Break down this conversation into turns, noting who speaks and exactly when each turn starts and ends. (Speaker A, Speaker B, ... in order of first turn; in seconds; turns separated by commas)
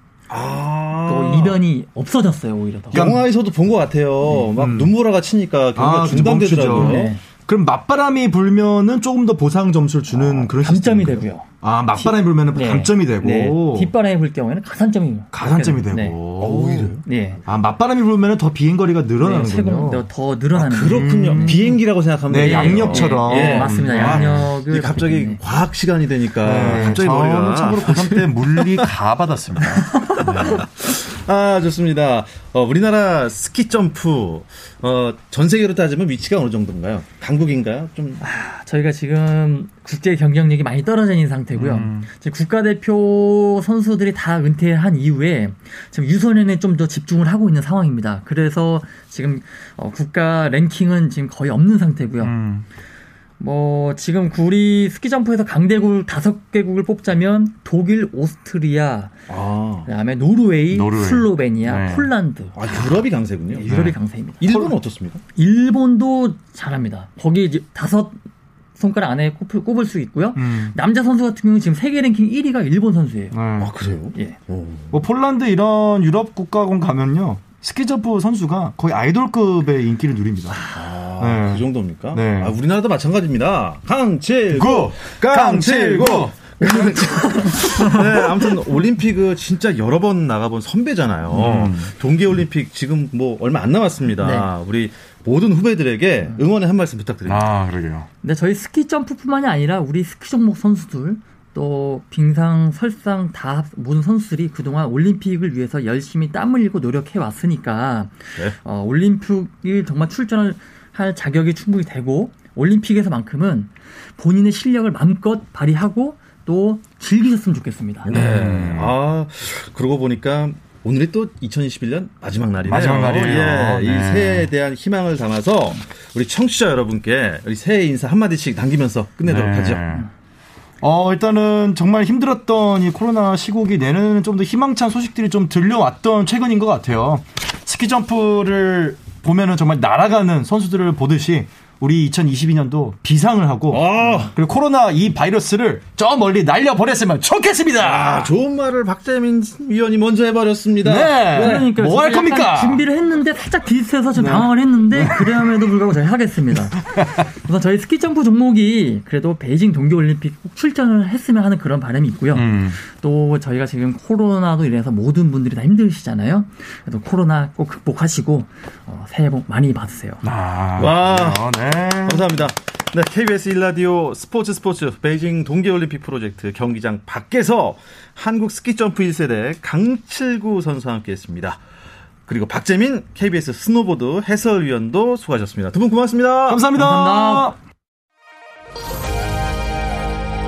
Speaker A: 0.3-1.6, Speaker B: 1.0-3.1, Speaker A: 2.9-7.1, Speaker C: 2.9-3.2, Speaker C: 4.6-4.9, Speaker C: 5.8-13.9, Speaker B: 6.7-7.2, Speaker B: 10.1-16.4, Speaker C: 15.3-16.9, Speaker A: 16.4-17.0, Speaker B: 17.0-17.4, Speaker C: 17.4-20.0, Speaker B: 19.2-21.7, Speaker A: 20.5-28.9, Speaker C: 20.9-21.7, Speaker C: 22.3-24.5, Speaker B: 22.4-25.4, Speaker C: 26.4-30.6, Speaker B: 29.9-30.6, Speaker A: 30.2-38.2, Speaker B: 38.2-52.3, Speaker C: 41.5-42.1, Speaker C: 52.2-52.6, Speaker B: 53.4-59.1, Speaker A: 59.3-59.9, Speaker B: 59.9-62.6, Speaker C: 60.7-62.1, Speaker A: 62.5-65.2, Speaker B: 63.5-64.7, Speaker C: 63.6-64.0, Speaker B: 65.3-68.2, Speaker B: 68.8-73.4, Speaker C: 70.3-70.7, Speaker C: 73.3-73.7, Speaker A: 73.6-75.0, Speaker C: 74.9-80.6, Speaker B: 80.5-80.8, Speaker A: 80.7-97.5, Speaker C: 81.2-82.5, Speaker C: 84.5-88.0, Speaker B: 86.6-88.0, Speaker C: 91.3-91.9, Speaker B: 94.2-94.5, Speaker C: 97.2-98.1, Speaker B: 98.2-118.2, Speaker A: 118.0-130.0, Speaker C: 118.1-118.9, Speaker C: 122.6-124.5, Speaker C: 129.2-130.1, Speaker C: 130.8-148.3, Speaker A: 143.7-144.3, Speaker A: 147.8-151.7, Speaker C: 150.8-152.8, Speaker B: 151.3-170.2, Speaker C: 154.2-155.6, Speaker C: 156.8-157.2, Speaker C: 162.3-162.8, Speaker C: 170.2-172.3, Speaker A: 170.8-181.6, Speaker A: 182.2-186.7, Speaker C: 186.5-187.6, Speaker B: 186.8-187.5